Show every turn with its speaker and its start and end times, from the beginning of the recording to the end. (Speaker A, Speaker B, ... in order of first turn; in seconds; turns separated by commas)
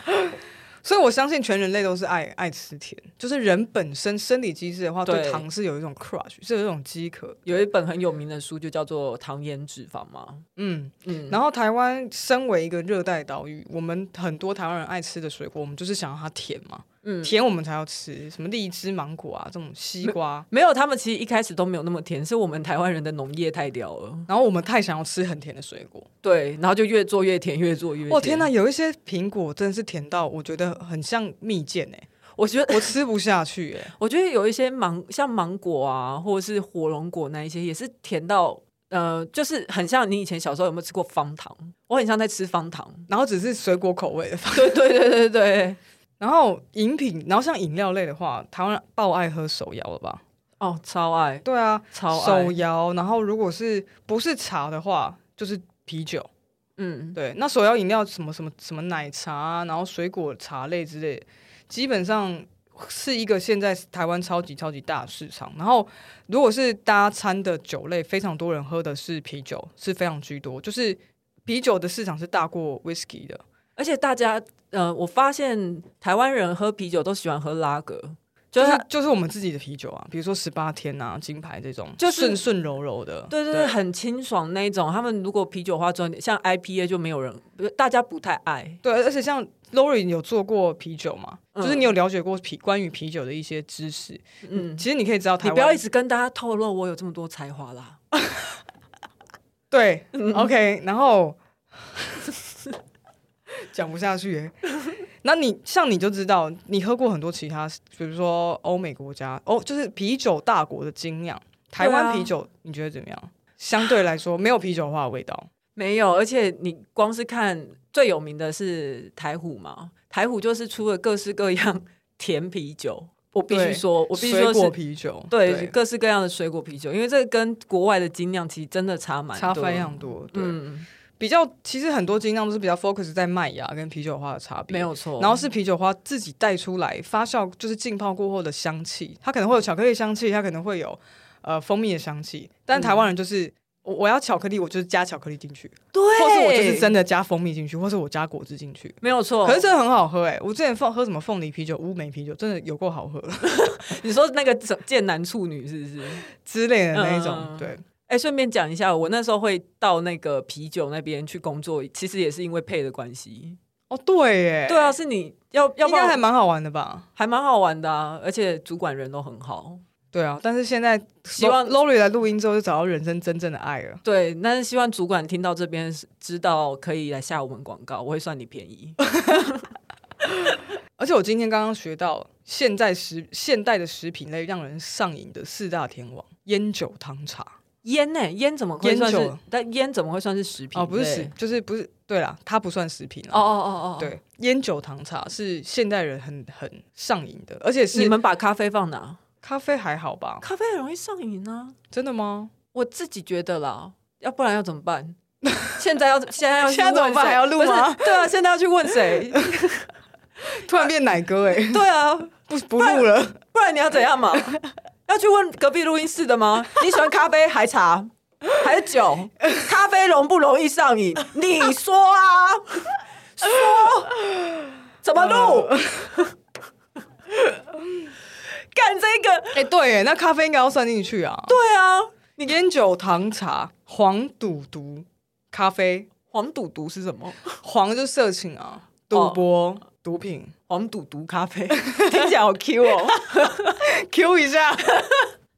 Speaker A: 0.8-7.4, Speaker B: 5.1-5.5, Speaker B: 7.5-10.4, Speaker A: 10.6-20.5, Speaker B: 11.1-11.4, Speaker B: 17.0-17.3, Speaker B: 20.0-24.3, Speaker A: 24.3-26.1, Speaker B: 26.2-28.5, Speaker A: 28.1-32.1, Speaker B: 32.4-32.9, Speaker A: 32.7-33.9, Speaker B: 34.0-43.1, Speaker A: 43.1-44.7, Speaker B: 44.5-45.8, Speaker A: 46.2-50.2, Speaker B: 50.6-52.6, Speaker A: 51.5-56.3, Speaker B: 56.8-57.2, Speaker A: 57.1-73.4, Speaker B: 73.8-78.8, Speaker A: 78.6-83.8, Speaker B: 82.0-82.4, Speaker B: 83.3-88.8, Speaker A: 88.8-95.8, Speaker B: 91.5-91.9, Speaker B: 94.4-94.8, Speaker B: 95.4-98.0, Speaker A: 99.7-102.3, Speaker B: 100.1-100.5, Speaker A: 103.7-104.5, Speaker A: 105.2-115.5, Speaker B: 111.8-112.3, Speaker B: 115.8-124.8, Speaker A: 123.5-125.7, Speaker B: 125.3-130.9, Speaker A: 129.3-130.6, Speaker A: 131.2-153.5, Speaker B: 134.7-135.4, Speaker B: 142.7-143.0, Speaker B: 145.9-146.9, Speaker B: 149.0-149.6, Speaker B: 153.5-156.2, Speaker A: 156.4-157.8, Speaker B: 156.9-163.6, Speaker A: 163.9-165.0, Speaker B: 164.7-166.2, Speaker A: 165.8-167.1, Speaker B: 167.2-169.8, Speaker A: 170.1-174.0, Speaker B: 171.4-171.8, Speaker B: 174.0-179.7, Speaker A: 181.0-187.6, Speaker B: 187.8-191.3, Speaker A: 188.8-189.4, Speaker A: 190.8-193.4, Speaker B: 193.3-194.1, Speaker A: 194.0-198.2, Speaker B: 197.9-199.2, Speaker A: 199.4-200.4, Speaker B: 200.4-201.8, Speaker A: 201.9-202.5, Speaker B: 202.7-205.2, Speaker B: 205.7-209.9, Speaker A: 206.6-208.3, Speaker A: 210.5-211.8, Speaker B: 211.6-224.1, Speaker A: 212.5-213.4, Speaker B: 225.0-226.3, Speaker A: 225.2-226.1, Speaker B: 228.6-229.6, Speaker A: 229.5-231.6, Speaker B: 231.5-232.3, Speaker A: 232.4-236.1, Speaker B: 236.3-237.6, Speaker A: 237.6-240.5, Speaker B: 239.1-239.4, Speaker B: 240.7-243.8, Speaker A: 241.7-242.3, Speaker A: 243.8-244.9, Speaker B: 244.9-245.3